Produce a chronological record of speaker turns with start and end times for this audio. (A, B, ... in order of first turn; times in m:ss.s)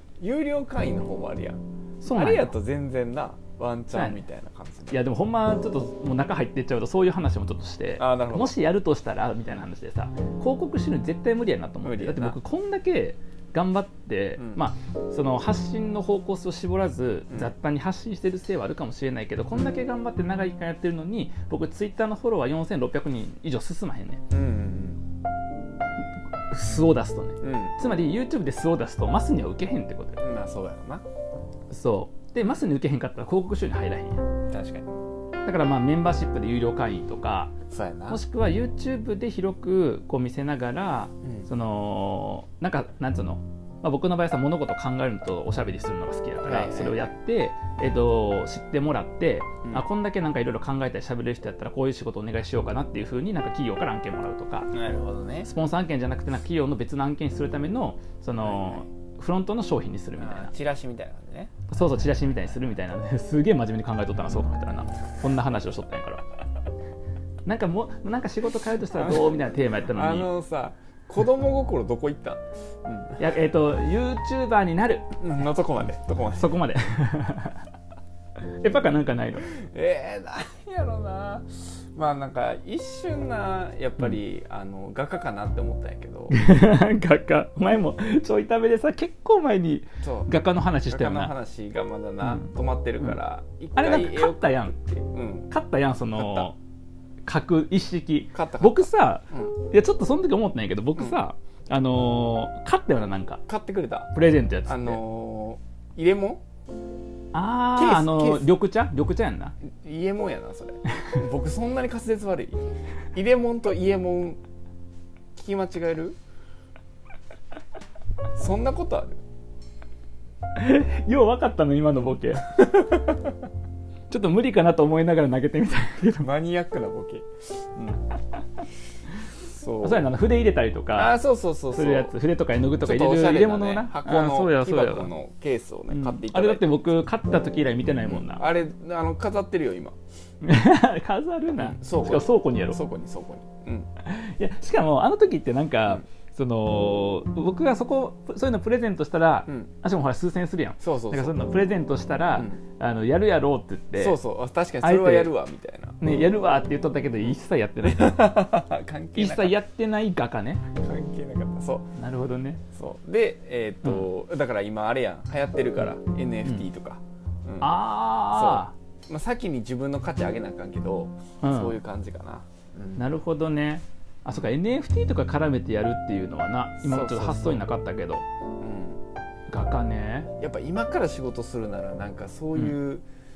0:00.2-0:05.0 A
0:02.0-0:02.5 B
0:03.9-0:04.2 B
0:04.9-0:24.2 B
0:08.0-0:08.6 A
0:11.8-0:12.4 A
0:24.3-0:25.0 A
0:26.5-0:30.2 B
0:27.4-0:27.8 A
0:30.2-0:31.0 A
0:31.7-0:34.3 B
0:34.5-0:34.9 A
0:35.4-0:37.5 B
0:37.7-0:38.2 A
0:38.1-0:54.7 B
0:41.2-0:41.5 A
0:46.4-0:47.1 A
0:54.7-0:55.5 A
0:55.4-1:00.5 B
0:58.4-0:58.9 A
1:00.2-1:01.5 A
1:01.7-1:06.2 B
1:07.4-1:10.3 B
1:08.9-1:13.2 A
1:13.2-1:15.1 B
1:15.2-1:16.6 A
1:16.4-1:17.6 B
1:18.4-1:19.5 B
1:19.5-1:26.4 A
1:26.3-1:31.3 B
1:30.0-1:30.3 A
1:30.9-1:35.5 A
1:32.2-1:32.5 B
1:33.8-1:34.8 B
1:35.5-1:36.6 B
1:36.1-1:36.5 A
1:37.2-1:43.4 B
1:38.3-1:39.5 A
1:43.5-1:44.1 A
1:44.1-1:45.0 B
1:44.6-1:46.4 A
1:47.3-1:49.5 B
1:47.7-1:48.5 A
1:49.8-1:52.6 A
1:53.1-1:54.4 A
1:55.3-1:56.2 A
1:58.3-1:59.2 A
2:00.6-2:02.8 B
2:02.6-2:03.0 A
2:04.1-2:06.3 B
2:06.2-2:07.3 A
2:09.4-2:10.0 A
2:09.8-2:11.2 B
2:10.9-2:12.1 A
2:11.7-2:15.1 B
2:12.8-2:16.7 A
2:15.9-2:18.5 B
2:18.0-2:20.0 A
2:20.4-2:22.8 B
2:21.6-2:23.9 A
2:24.0-2:34.2 B
2:30.8-2:31.4 A
2:32.3-2:32.6 A
2:34.0-2:36.0 A
2:34.8-2:35.3 B
2:36.0-2:38.3 B
2:37.2-2:39.6 A
2:39.2-2:40.6 B
2:40.7-2:41.9 A
2:42.0-2:42.6 B
2:42.7-2:47.8 A
2:47.6-2:48.7 B
2:48.3-2:53.0 A
2:51.4-2:51.8 B
2:53.0-2:58.2 B
2:56.8-2:57.6 A
2:58.6-2:59.0 A
2:59.5-3:00.3 B
3:00.4-3:03.0 A